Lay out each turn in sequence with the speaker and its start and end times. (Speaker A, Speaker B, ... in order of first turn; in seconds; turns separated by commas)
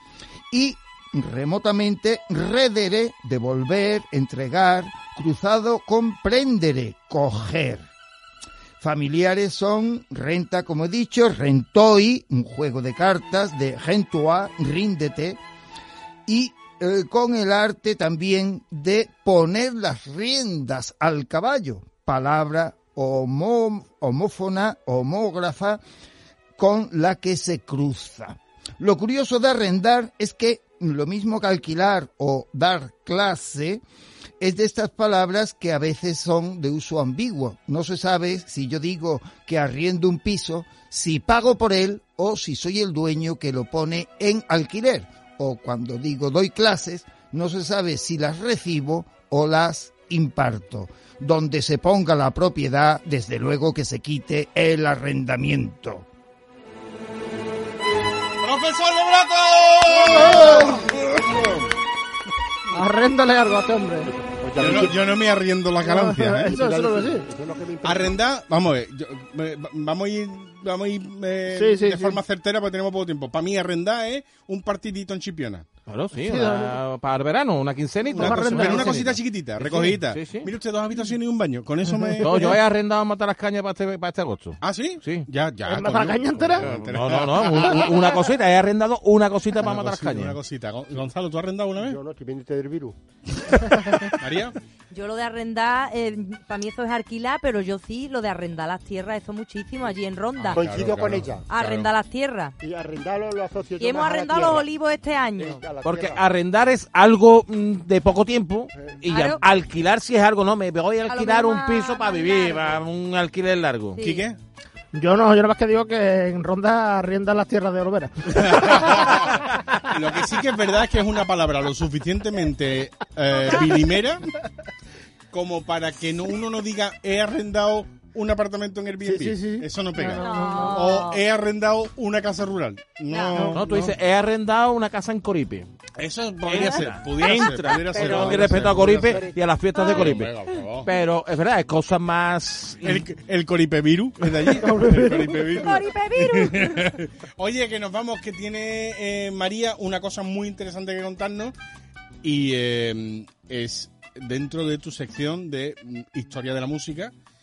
Speaker A: 0.5-7.9, Speaker A: 8.8-15.4, Speaker A: 16.3-25.8, Speaker A: 26.6-33.8, Speaker A: 34.4-56.1, Speaker B: 58.4-61.7, Speaker C: 60.1-60.7, Speaker C: 62.7-64.1, Speaker D: 64.1-65.0, Speaker B: 64.6-66.5, Speaker C: 65.8-67.2, Speaker D: 66.5-68.2, Speaker B: 67.8-75.7, Speaker C: 71.5-72.2, Speaker E: 75.9-80.5, Speaker C: 76.2-76.8, Speaker B: 78.1-82.6, Speaker C: 78.1-79.1, Speaker E: 82.2-85.3, Speaker B: 84.6-88.2, Speaker C: 85.7-86.7, Speaker E: 86.6-90.4, Speaker B: 89.6-92.0, Speaker D: 91.8-93.0, Speaker B: 93.5-94.5, Speaker F: 94.9-100.7, Speaker B: 100.4-101.9, Speaker D: 100.5-101.5, Speaker F: 101.5-102.5, Speaker D: 102.6-104.7, Speaker F: 103.8-105.6, Speaker D: 105.4-106.3, Speaker E: 105.8-114.0, Speaker F: 109.1-109.4, Speaker F: 111.1-112.8, Speaker F: 114.0-114.3, Speaker B: 114.0-114.4, Speaker C: 114.9-118.5, Speaker B: 118.3-124.3, Speaker B: 125.3-133.9, Speaker C: 129.1-130.7, Speaker F: 130.0-131.2, Speaker F: 133.1-133.4, Speaker E: 133.4-135.7, Speaker B: 136.0-139.3, Speaker E: 136.5-140.3, Speaker D: 137.9-139.3, Speaker F: 139.8-140.1, Speaker B: 139.8-140.9, Speaker E: 140.8-143.0, Speaker B: 142.8-151.5, Speaker C: 144.6-145.7, Speaker F: 145.6-146.8, Speaker B: 152.2-157.1